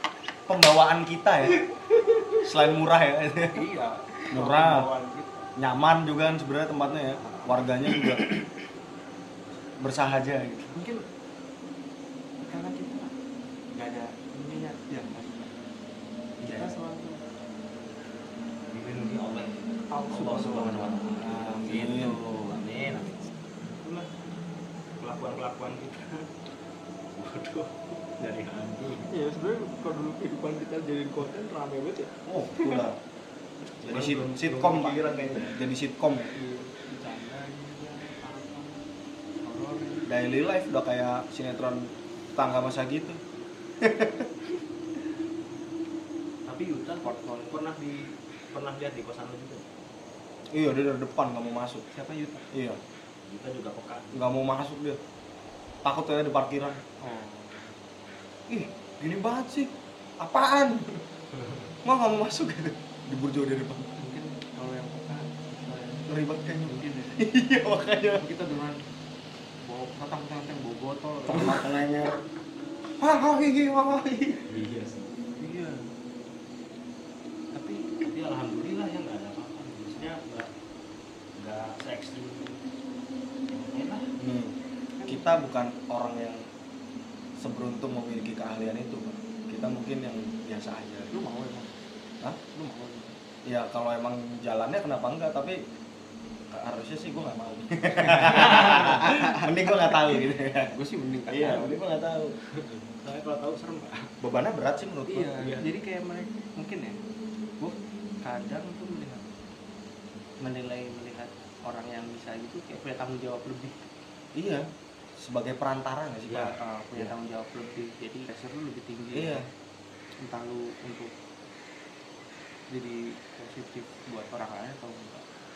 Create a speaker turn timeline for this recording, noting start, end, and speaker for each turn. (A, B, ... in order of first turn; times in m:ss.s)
0:00.5-0:01.6 A
0:02.4-0:03.7 A
0:03.5-0:05.5 B
0:04.3-0:04.9 A
0:05.6-0:08.3 A
0:09.8-0:10.8 A
0:10.7-0:11.0 B
0:12.4-0:13.1 B
0:13.7-0:15.6 B
0:16.4-0:17.2 B
0:18.7-0:24.1 C
0:19.9-0:21.7 B
0:20.1-0:22.2 A
0:25.0-0:26.3 C
0:27.2-0:29.1 C
0:29.0-0:32.8 B
0:32.2-0:33.0 A
0:33.8-0:35.5 C
0:33.8-0:36.3 A
0:36.3-0:38.8 B
0:39.4-0:40.1 B
0:40.1-0:43.2 A
0:43.8-0:44.3 A
0:46.4-0:49.6 C
0:47.0-0:47.6 B
0:50.5-0:51.8 A
0:51.9-0:52.5 B
0:52.5-0:52.8 A
0:53.2-0:54.1 C
0:54.1-0:55.0 A
0:55.8-0:56.8 A
0:57.0-0:57.8 B
0:58.5-1:00.9 A
1:01.8-1:03.9 A
1:04.0-1:07.2 B
1:06.1-1:08.2 A
1:08.1-1:08.8 B
1:09.6-1:11.7 B
1:11.3-1:12.1 A
1:13.0-1:14.5 A
1:14.5-1:15.1 C
1:15.4-1:15.9 B
1:17.5-1:18.0 B
1:18.0-1:20.5 C
1:21.4-1:22.6 C
1:23.5-1:24.1 C
1:24.2-1:26.5 A
1:25.0-1:25.4 B
1:27.4-1:31.1 A
1:31.1-1:31.7 B
1:32.5-1:33.2 B
1:33.4-1:35.6 A
1:36.5-1:40.8 A
1:38.0-1:39.5 B
1:40.7-1:41.8 B
1:41.3-1:42.4 A
1:42.5-1:44.1 C
1:44.2-1:45.6 A
1:45.1-1:47.0 B
1:45.4-1:45.6 C
1:47.6-1:49.2 B
1:50.4-1:53.8 B
1:54.3-1:57.1 A
1:56.3-1:56.5 C
1:56.3-1:59.4 B
1:59.1-1:59.4 A
2:00.2-2:01.1 B
2:02.7-2:05.2 B